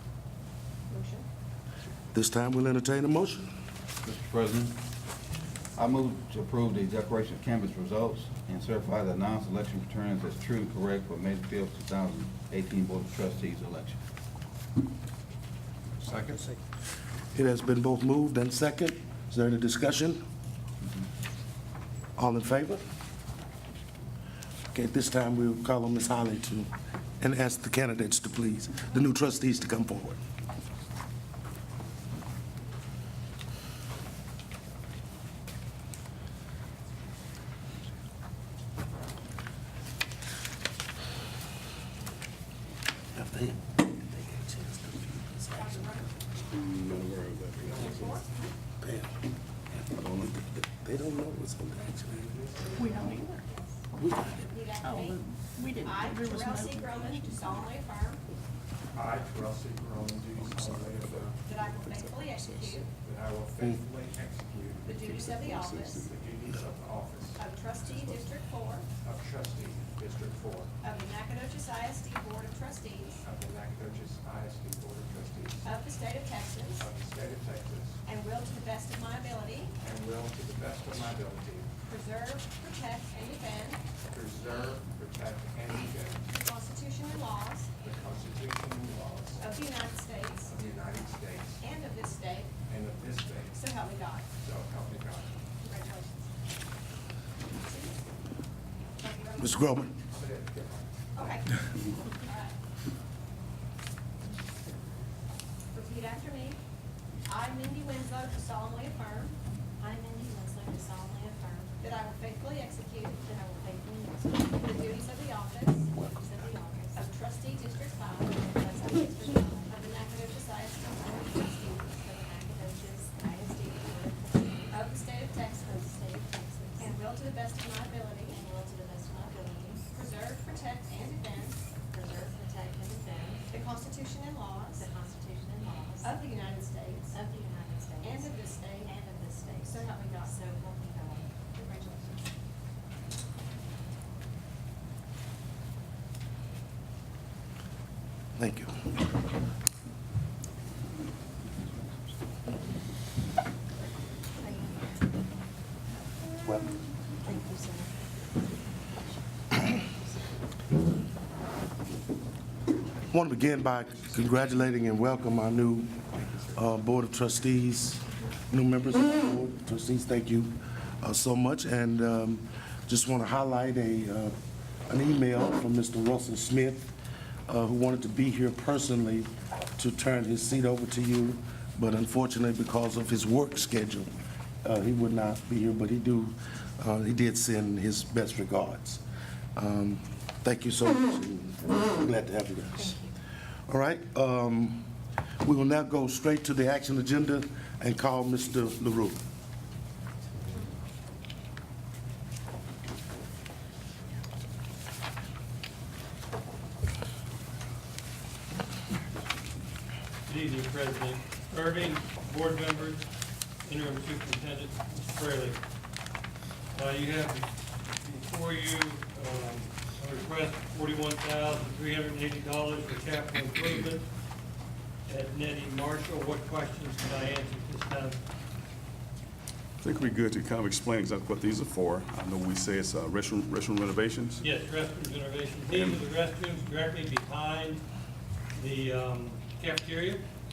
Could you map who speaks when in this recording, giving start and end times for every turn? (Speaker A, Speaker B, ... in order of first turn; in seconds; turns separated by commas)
Speaker A: 0.9-1.2, Speaker B: 2.1-3.5, Speaker C: 4.0-4.8, Speaker C: 5.8-14.0, Speaker D: 16.1-16.4, Speaker B: 17.3-20.2, Speaker B: 22.2-22.8, Speaker B: 24.7-30.2, Speaker B: 43.1-46.0, Speaker A: 45.5-46.2, Speaker E: 46.4-48.2, Speaker D: 47.6-48.0, Speaker A: 47.7-48.5, Speaker B: 48.8-49.1, Speaker B: 49.9-52.3, Speaker E: 50.0-50.4, Speaker D: 52.1-53.2, Speaker F: 52.8-53.4, Speaker A: 54.2-55.2, Speaker F: 55.5-56.8, Speaker A: 55.8-58.2, Speaker D: 58.9-61.4, Speaker A: 61.4-62.9, Speaker D: 63.0-65.3, Speaker A: 64.8-66.0, Speaker E: 65.0-66.2, Speaker D: 66.0-68.2, Speaker A: 67.4-68.9, Speaker D: 69.0-70.7, Speaker A: 70.8-73.2, Speaker D: 73.2-75.7, Speaker A: 75.6-76.9, Speaker D: 76.8-78.0, Speaker A: 78.0-79.7, Speaker D: 79.8-81.7, Speaker A: 81.8-83.8, Speaker D: 84.1-86.2, Speaker A: 86.3-87.7, Speaker D: 87.8-89.6, Speaker A: 89.4-90.5, Speaker D: 90.4-91.6, Speaker A: 91.6-92.5, Speaker D: 92.7-93.6, Speaker A: 93.5-94.3, Speaker D: 94.4-95.4, Speaker A: 95.6-96.3, Speaker A: 97.5-98.0, Speaker A: 99.0-99.8, Speaker B: 99.4-100.0, Speaker D: 100.1-101.3, Speaker A: 101.1-102.6, Speaker A: 105.7-106.6, Speaker A: 107.3-109.4, Speaker G: 109.8-111.8, Speaker A: 111.8-113.3, Speaker G: 113.2-114.9, Speaker A: 114.6-115.9, Speaker G: 115.9-117.0, Speaker A: 117.0-121.9, Speaker G: 118.3-119.8, Speaker G: 121.9-124.8, Speaker A: 124.7-126.0, Speaker G: 125.6-127.0, Speaker A: 126.8-128.4, Speaker G: 128.3-129.9, Speaker A: 129.8-131.6, Speaker G: 131.9-133.5, Speaker A: 133.5-134.9, Speaker G: 134.8-136.2, Speaker A: 136.0-137.2, Speaker G: 137.1-141.3, Speaker A: 138.0-138.9, Speaker A: 139.6-140.3, Speaker A: 141.6-142.2, Speaker B: 148.4-148.9, Speaker G: 154.4-155.2, Speaker G: 157.2-157.9, Speaker B: 163.1-174.3, Speaker B: 174.9-176.9, Speaker B: 177.5-184.1, Speaker B: 184.6-189.0, Speaker B: 189.6-193.0, Speaker B: 193.7-194.9, Speaker B: 195.4-199.2, Speaker H: 210.3-213.1, Speaker H: 213.7-215.6, Speaker H: 216.7-224.1, Speaker H: 225.1-228.2, Speaker E: 229.8-234.5, Speaker H: 234.4-237.8, Speaker E: 235.7-236.1, Speaker H: 238.6-240.3